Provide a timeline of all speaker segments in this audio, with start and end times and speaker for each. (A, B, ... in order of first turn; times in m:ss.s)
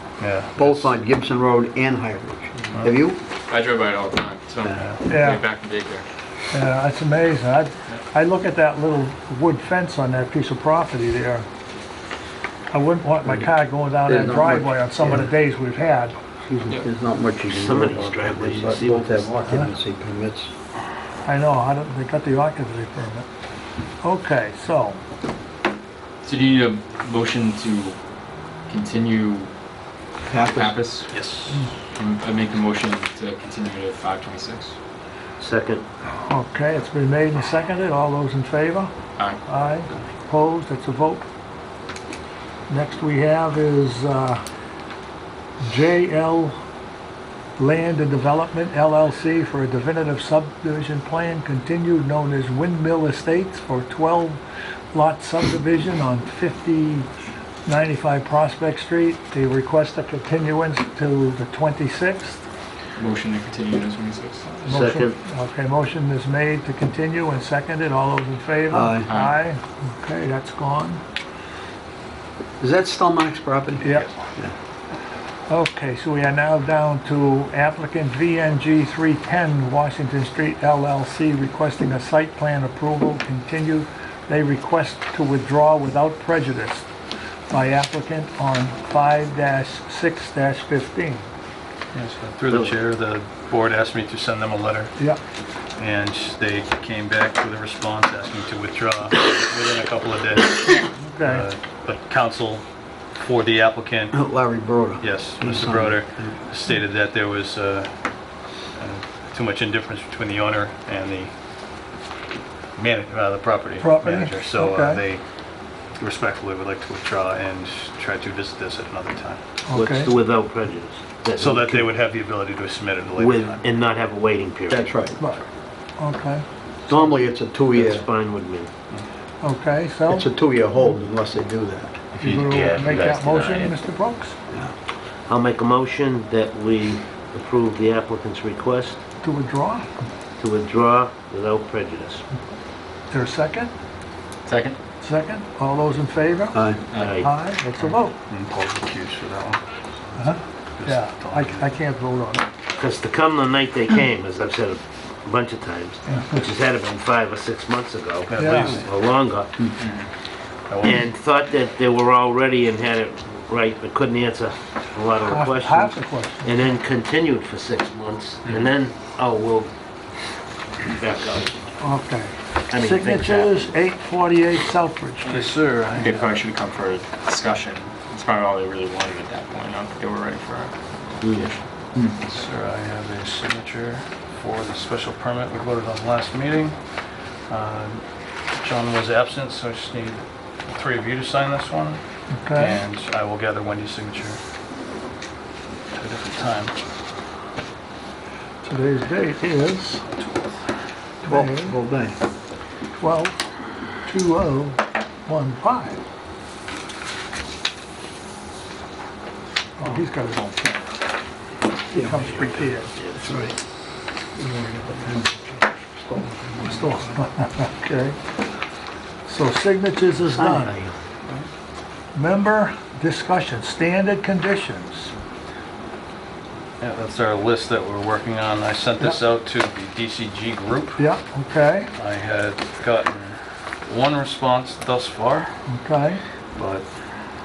0:00.2-0:00.9 A
0:00.6-0:03.2 B
0:02.7-0:03.0 A
0:03.5-0:06.1 C
0:05.1-0:05.4 D
0:06.5-0:11.5 D
0:12.7-0:16.7 D
0:14.1-0:15.3 B
0:16.5-0:20.5 B
0:17.5-0:19.3 E
0:19.5-0:19.7 D
0:21.2-0:23.3 D
0:24.0-0:25.0 D
0:26.2-0:28.0 C
0:28.7-0:29.5 C
0:30.3-0:30.8 B
0:30.4-0:31.1 C
0:31.1-0:31.6 A
0:31.9-0:34.8 C
0:35.4-0:35.8 E
0:36.1-0:38.9 D
0:39.4-0:41.2 D
0:42.7-0:44.4 D
0:45.6-0:46.6 D
0:47.6-0:54.4 D
0:54.9-0:57.1 D
0:57.7-1:02.4 D
1:03.0-1:04.8 C
1:04.7-1:11.0 D
1:04.7-1:05.2 E
1:08.7-1:09.1 B
1:09.1-1:09.4 C
1:12.6-1:14.5 B
1:13.8-1:14.1 D
1:13.9-1:14.1 A
1:15.5-1:26.9 D
1:27.5-1:31.3 D
1:31.9-1:34.9 A
1:32.5-1:32.8 E
1:35.8-1:42.6 A
1:41.0-1:41.4 D
1:43.2-1:44.2 A
1:44.1-1:46.3 B
1:45.0-1:47.9 A
1:48.8-1:51.3 A
1:52.8-1:55.2 A
1:53.8-1:55.0 D
1:56.0-1:59.4 A
1:59.7-2:00.1 D
1:59.7-2:01.7 E
2:01.4-2:03.6 A
2:01.5-2:01.8 B
2:03.2-2:04.9 E
2:04.7-2:05.2 B
2:05.2-2:05.5 D
2:06.0-2:07.0 D
2:06.9-2:08.1 B
2:07.7-2:08.7 E
2:09.4-2:10.3 D
2:10.1-2:12.1 B
2:12.2-2:14.4 D
2:12.4-2:13.7 E
2:15.3-2:19.0 E
2:19.2-2:19.9 D
2:20.4-2:22.2 E
2:23.1-2:23.7 D
2:24.5-2:24.8 C
2:25.0-2:28.2 D
2:26.5-2:26.8 B
2:27.0-2:27.3 E
2:27.8-2:31.7 A
2:30.2-2:32.5 D
2:32.8-2:39.6 E
2:36.1-2:36.5 D
2:38.3-2:38.9 A
2:38.4-2:38.8 D
2:39.8-2:40.1 C
2:40.7-2:41.1 A
2:40.8-2:49.7 E
2:45.2-2:46.8 D
2:50.8-2:51.6 E
2:51.8-2:55.6 D
2:52.7-2:53.7 E
2:55.2-2:56.4 A
2:55.9-3:01.6 C
3:02.2-3:06.8 A
3:07.5-3:08.0 A
3:08.6-3:12.0 A
3:12.3-3:12.8 D
3:12.5-3:14.4 A
3:15.9-3:16.8 A
3:18.6-3:20.0 D
3:20.1-3:20.5 A
3:21.2-3:21.8 D
3:21.3-3:22.2 B
3:23.0-3:23.4 D
3:24.0-3:26.0 D
3:29.8-3:30.8 D
3:31.9-3:32.5 B
3:31.9-3:33.0 D
3:32.4-3:33.5 E
3:33.2-3:33.5 B
3:34.4-3:37.2 B
3:36.6-3:38.2 D
3:39.3-3:40.8 D
3:40.5-3:40.9 E
3:42.2-3:45.1 D
3:46.8-3:51.0 A
3:51.0-3:51.9 D
3:52.0-3:55.6 A
3:55.7-3:56.2 D
3:56.6-3:56.9 A